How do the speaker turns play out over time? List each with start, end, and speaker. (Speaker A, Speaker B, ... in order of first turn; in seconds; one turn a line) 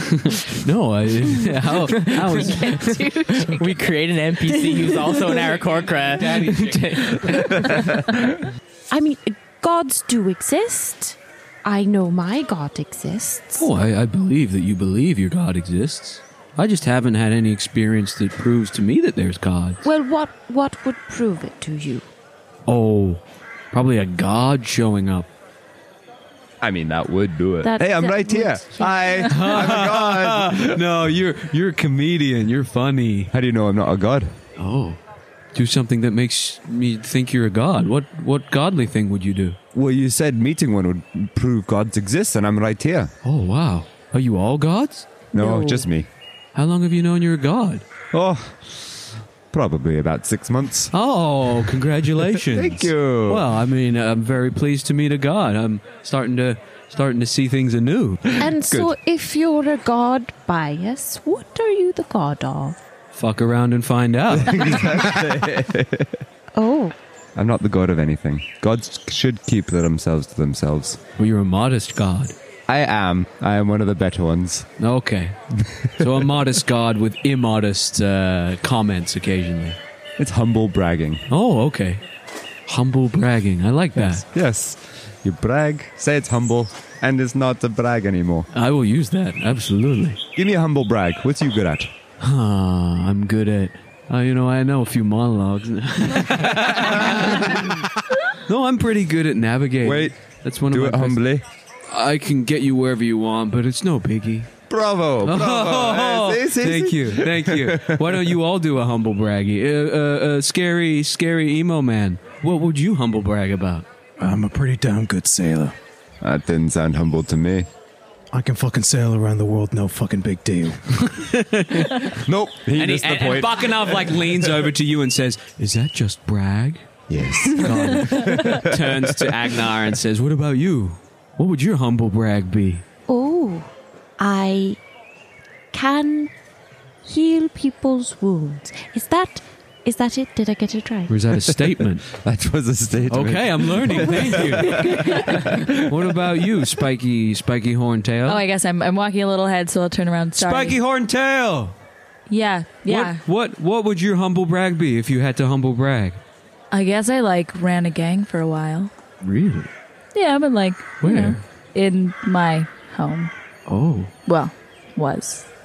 Speaker A: 0.1-3.1
Speaker B: 1.8-8.0
Speaker C: 2.1-3.7
Speaker A: 6.2-7.1
Speaker D: 7.3-8.2
Speaker C: 8.9-13.7
Speaker A: 13.6-19.8
Speaker C: 19.8-22.1
Speaker A: 22.7-25.3
Speaker D: 26.6-30.8
Speaker C: 27.6-29.2
Speaker A: 29.3-33.3
Speaker D: 33.3-34.4
Speaker A: 34.6-35.0
Speaker A: 35.5-39.6
Speaker D: 39.7-43.1
Speaker A: 43.2-45.2
Speaker D: 45.3-46.1
Speaker C: 45.4-45.9
Speaker A: 46.5-47.9
Speaker D: 48.1-50.9
Speaker A: 50.9-58.3
Speaker D: 52.2-53.5
Speaker C: 58.4-62.8
Speaker D: 58.4-58.9
Speaker A: 63.1-64.9
Speaker D: 64.3-66.2
Speaker C: 66.5-67.0
Speaker D: 67.3-71.0
Speaker A: 71.2-72.3
Speaker D: 72.7-74.7
Speaker A: 74.8-79.8
Speaker D: 75.6-76.3
Speaker D: 80.2-81.2
Speaker A: 81.3-82.0
Speaker A: 82.7-84.2
Speaker D: 84.0-88.5
Speaker A: 88.5-90.2
Speaker D: 90.4-91.9
Speaker A: 92.2-97.9
Speaker D: 96.8-97.7
Speaker A: 98.5-101.2
Speaker D: 99.8-100.1
Speaker D: 100.7-101.4
Speaker A: 101.9-104.5
Speaker D: 104.7-108.4
Speaker A: 105.2-113.9
Speaker E: 114.2-115.8
Speaker D: 116.2-117.7
Speaker E: 118.3-120.9
Speaker A: 120.9-122.2
Speaker D: 121.9-124.6
Speaker A: 122.7-126.9
Speaker D: 127.1-129.5
Speaker A: 127.5-132.8
Speaker C: 133.1-134.8
Speaker C: 135.7-136.3
Speaker C: 137.0-141.2
Speaker A: 141.1-142.1
Speaker D: 142.1-146.2
Speaker A: 143.1-148.4
Speaker F: 148.2-150.8
Speaker A: 150.3-151.8
Speaker F: 152.3-153.2
Speaker A: 152.9-156.2
Speaker F: 156.7-158.9
Speaker A: 159.2-159.7
Speaker F: 160.2-163.3
Speaker A: 161.0-161.4
Speaker A: 163.7-164.1
Speaker F: 164.3-165.5